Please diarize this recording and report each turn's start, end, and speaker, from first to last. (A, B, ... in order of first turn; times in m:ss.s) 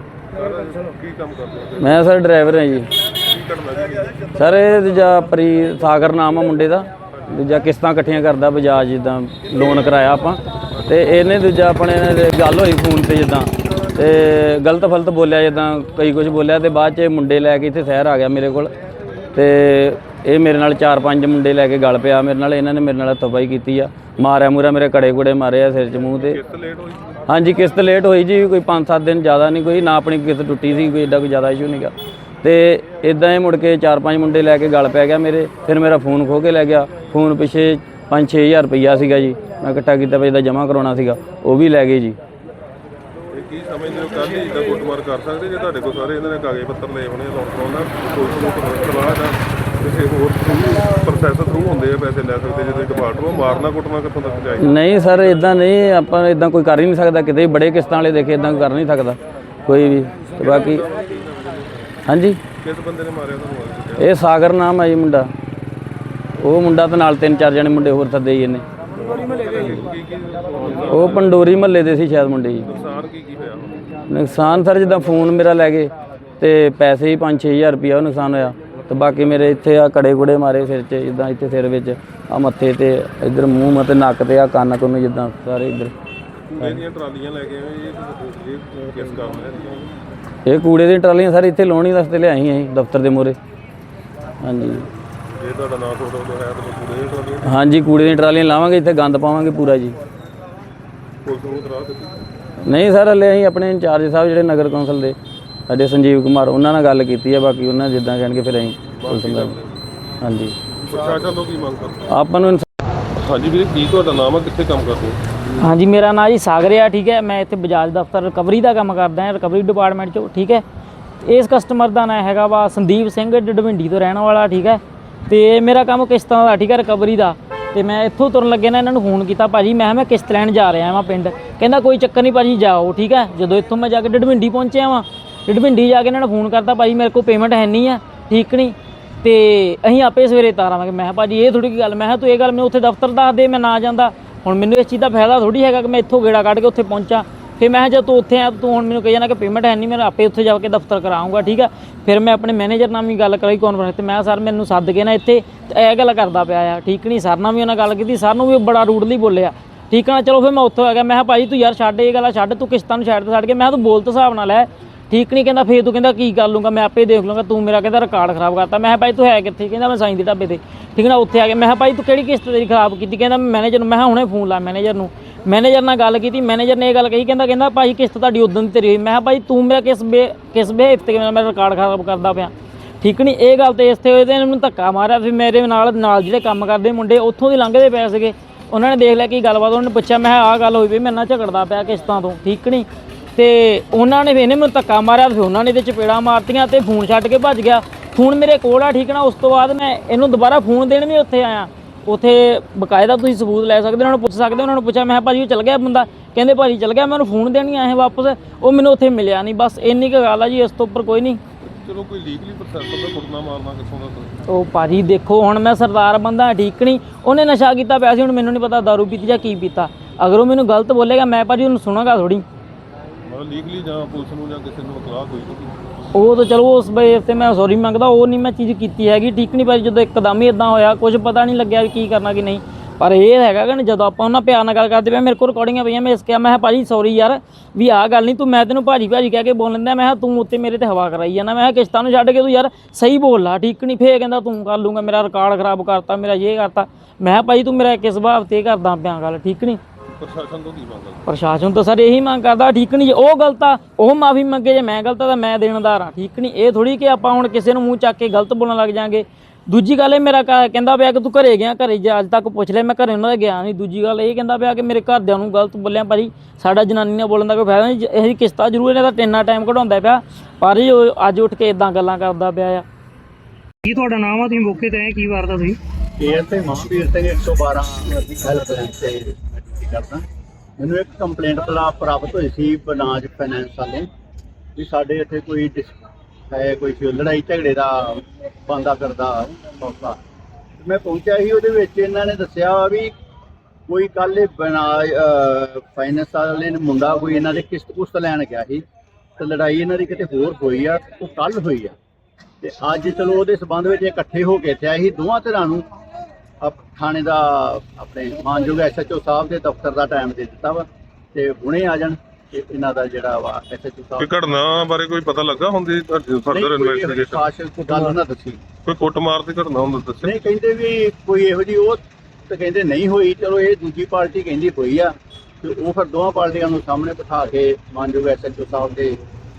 0:00.4-0:02.0 A
0:01.8-0:02.9 B
0:03.2-0:04.3 A
0:04.4-0:18.7 B
0:19.3-0:26.4 B
0:26.2-0:27.1 A
0:27.3-0:42.2 B
0:43.3-0:54.8 A
0:54.6-1:00.8 B
1:00.4-1:01.9 A
1:02.1-1:02.4 B
1:02.6-1:04.1 A
1:04.0-1:05.3 B
1:06.4-1:08.6 B
1:09.0-1:11.4 A
1:10.9-1:12.7 B
1:12.7-1:13.8 A
1:14.1-1:25.9 B
1:26.5-1:29.8 A
1:30.4-1:33.4 B
1:34.4-1:34.9 B
1:35.3-1:37.5 A
1:37.4-1:40.0 B
1:41.2-1:42.3 A
1:42.7-1:45.2 B
1:45.7-1:49.6 B
1:49.0-1:49.8 A
1:50.2-1:50.6 B
1:50.9-1:52.1 A
1:52.1-1:52.7 B
1:53.2-1:55.2 A
1:55.6-2:00.6 C
2:01.2-3:31.4 C
3:31.6-3:34.3 A
3:34.5-3:42.4 C
3:43.3-3:45.8 A
3:46.1-4:09.8 C
4:10.2-4:11.3 A
4:11.3-4:32.8 C
4:33.8-4:35.8 D
4:36.2-4:40.2 E
4:40.8-4:44.1 E
4:44.8-4:50.2 E
4:50.8-4:53.1 E
4:53.9-4:58.8 E
4:59.4-5:01.9 E
5:02.6-5:05.9 E
5:06.6-5:14.3 E
5:14.2-5:17.5 A
5:16.5-5:18.6 E
5:18.8-5:20.4 A
5:20.2-5:29.2 E